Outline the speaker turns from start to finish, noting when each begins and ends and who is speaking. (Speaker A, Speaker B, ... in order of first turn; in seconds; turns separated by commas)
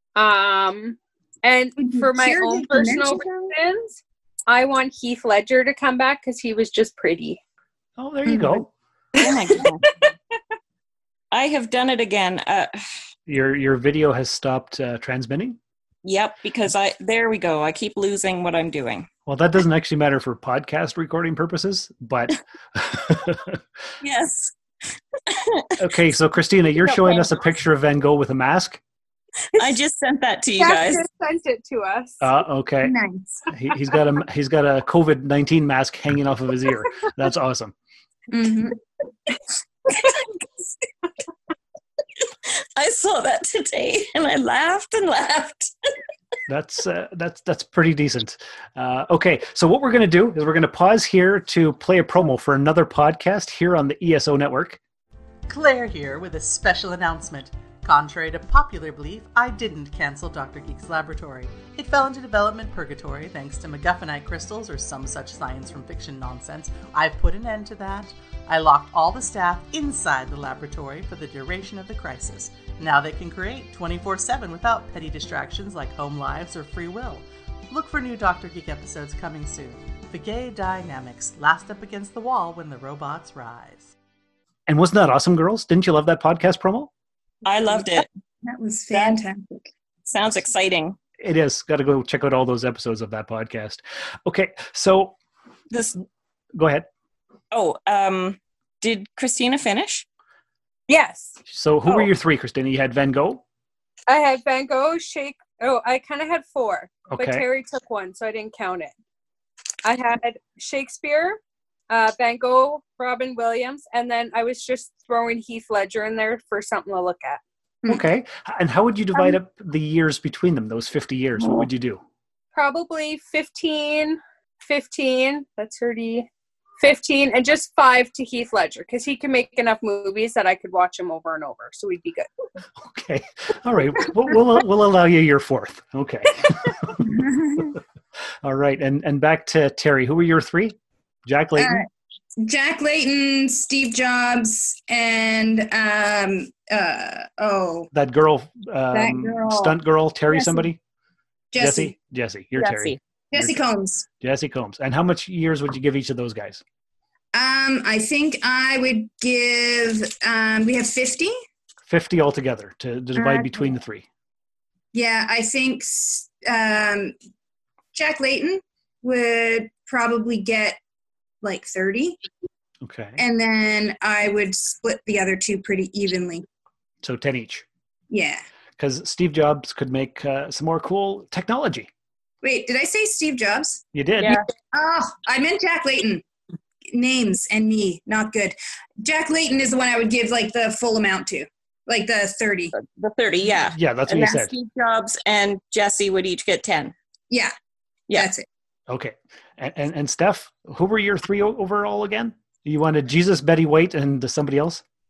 Speaker A: 0.1-7.4, Speaker B: 1.8-3.5, Speaker C: 8.0-8.7, Speaker B: 8.3-8.7, Speaker D: 9.1-9.9, Speaker D: 11.3-12.8, Speaker C: 13.3-15.6, Speaker D: 16.0-19.1, Speaker C: 19.3-23.6, Speaker D: 24.0-24.6, Speaker D: 25.3-25.7, Speaker C: 25.8-28.8, Speaker D: 26.8-27.6, Speaker D: 29.6-31.1, Speaker A: 30.6-32.2, Speaker C: 32.2-32.9, Speaker B: 32.8-33.5, Speaker C: 33.5-37.8, Speaker B: 38.3-38.8, Speaker D: 39.9-40.4, Speaker D: 42.5-45.7, Speaker C: 46.5-54.8, Speaker E: 55.5-83.9, Speaker C: 84.7-86.9, Speaker D: 87.5-88.1, Speaker B: 88.4-89.7, Speaker D: 88.9-89.2, Speaker D: 90.1-91.0, Speaker C: 91.2-95.2, Speaker D: 95.7-96.0, Speaker C: 96.5-96.9, Speaker D: 97.5-100.1, Speaker A: 100.9-101.4, Speaker C: 101.5-103.4, Speaker A: 104.1-108.9, Speaker C: 107.1-107.5, Speaker A: 109.8-117.4, Speaker C: 117.9-122.0, Speaker A: 122.5-126.3, Speaker A: 126.8-132.3, Speaker C: 132.8-137.0, Speaker B: 137.0-137.8, Speaker C: 138.4-141.8, Speaker B: 141.6-141.9, Speaker B: 142.4-147.9, Speaker C: 147.9-150.8, Speaker B: 148.9-149.8, Speaker B: 150.3-150.7, Speaker B: 151.5-151.9, Speaker C: 151.6-153.7, Speaker D: 152.6-153.0, Speaker B: 153.3-154.1, Speaker C: 154.2-156.6, Speaker B: 157.3-161.3, Speaker C: 161.9-164.1, Speaker B: 163.2-163.7, Speaker B: 164.9-167.1, Speaker B: 167.9-170.8, Speaker B: 171.4-172.2, Speaker C: 172.8-173.2, Speaker B: 173.2-176.4, Speaker C: 177.0-177.7, Speaker B: 178.1-178.4, Speaker C: 178.8-181.9, Speaker B: 182.4-183.8, Speaker C: 183.9-184.4, Speaker D: 184.2-184.4, Speaker B: 184.7-186.2, Speaker B: 186.9-192.7, Speaker D: 192.7-196.9, Speaker C: 193.7-194.5, Speaker B: 198.1-198.5, Speaker C: 198.9-204.8